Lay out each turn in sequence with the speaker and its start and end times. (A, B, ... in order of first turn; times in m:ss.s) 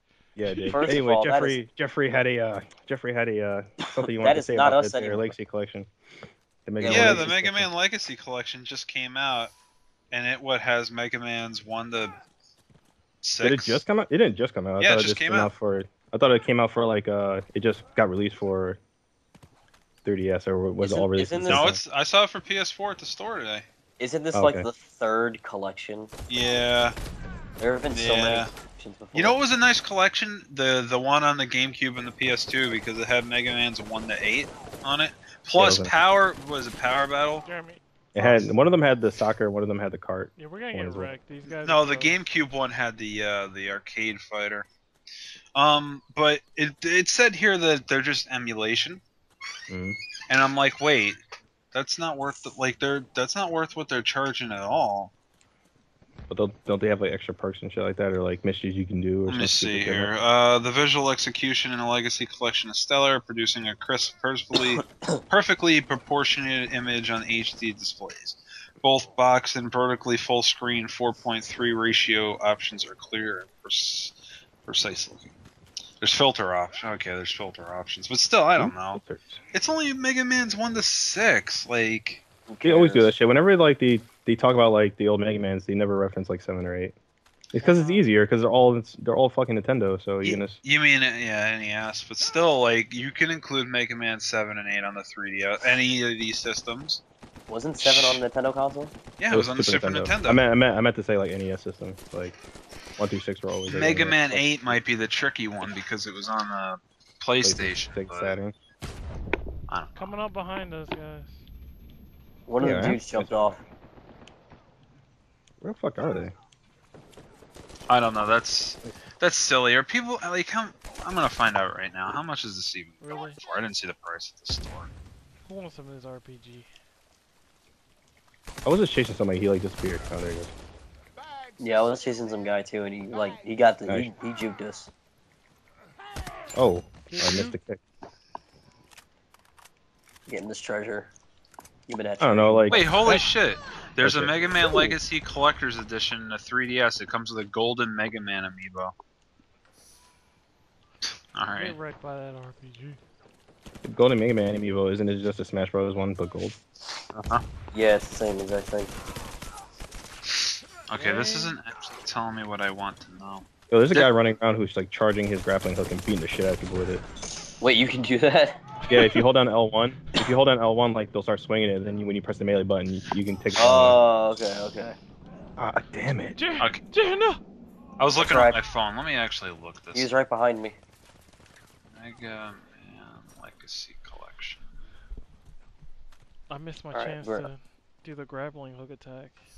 0:00.4-0:05.9 A
0:00.5-0:00.9 B
0:00.7-0:01.6 C
0:04.0-0:05.4 C
0:06.6-0:07.7 A
0:06.8-0:07.3 C
0:06.8-0:09.5 D
0:10.1-0:12.2 D
0:13.2-0:13.8 D
0:13.4-0:18.8 A
0:14.8-0:15.5 D
0:20.0-0:21.8 A
0:20.8-0:21.7 C
0:21.5-0:23.7 D
0:24.0-0:26.1 C
0:24.3-0:24.7 A
0:26.3-0:27.0 D
0:27.6-0:29.4 C
0:27.9-0:28.5 D
0:29.1-0:37.5 D
0:35.6-0:35.9 A
0:37.4-0:37.8 B
0:38.1-0:41.1 A
0:38.2-0:38.5 C
0:40.4-0:42.2 B
0:41.5-0:44.7 D
0:45.6-0:49.0 D
0:49.7-0:50.0 A
0:50.3-0:51.2 D
0:51.7-0:55.1 D
0:56.3-1:00.1 A
0:59.3-1:15.4 D
1:04.6-1:05.2 C
1:16.0-1:19.0 D
1:18.6-1:19.4 A
1:19.5-1:22.2 D
1:22.5-1:23.2 C
1:22.6-1:27.0 A
1:27.5-1:30.6 A
1:27.6-1:28.1 B
1:30.2-1:37.0 D
1:37.5-1:38.9 C
1:37.8-1:38.2 D
1:39.2-1:40.4 D
1:39.3-1:42.4 A
1:43.0-1:44.8 A
1:43.7-1:48.4 D
1:47.4-1:48.6 A
1:49.7-1:50.1 D
1:50.0-1:51.3 B
1:52.5-1:53.6 C
1:52.6-1:53.6 A
1:55.6-1:56.3 A
1:57.9-2:04.9 D
2:03.0-2:03.4 B
2:05.4-2:06.7 B
2:08.6-2:10.5 A
2:11.6-2:14.9 C
2:16.6-2:17.8 A
2:17.1-2:17.6 B
2:20.3-2:21.1 C
2:21.9-2:23.0 C
2:22.2-2:23.2 A
2:22.7-2:29.0 D
2:24.0-2:25.0 A
2:31.3-2:31.8 D
2:31.5-2:33.0 B
2:33.8-2:36.6 A
2:37.1-2:37.4 D
2:37.7-2:38.9 C
2:40.3-2:44.1 D
2:41.0-2:41.6 B
2:43.7-2:47.0 A
2:47.6-2:48.6 C
2:48.9-2:49.2 B
2:48.9-2:54.0 A
2:53.6-2:55.0 C
2:55.6-2:56.4 A
2:56.3-2:57.4 B
2:58.0-3:00.1 D
2:58.2-2:58.6 C
2:59.9-3:00.8 C
3:02.0-3:04.6 D
3:06.5-3:09.4 B
3:06.9-3:07.5 C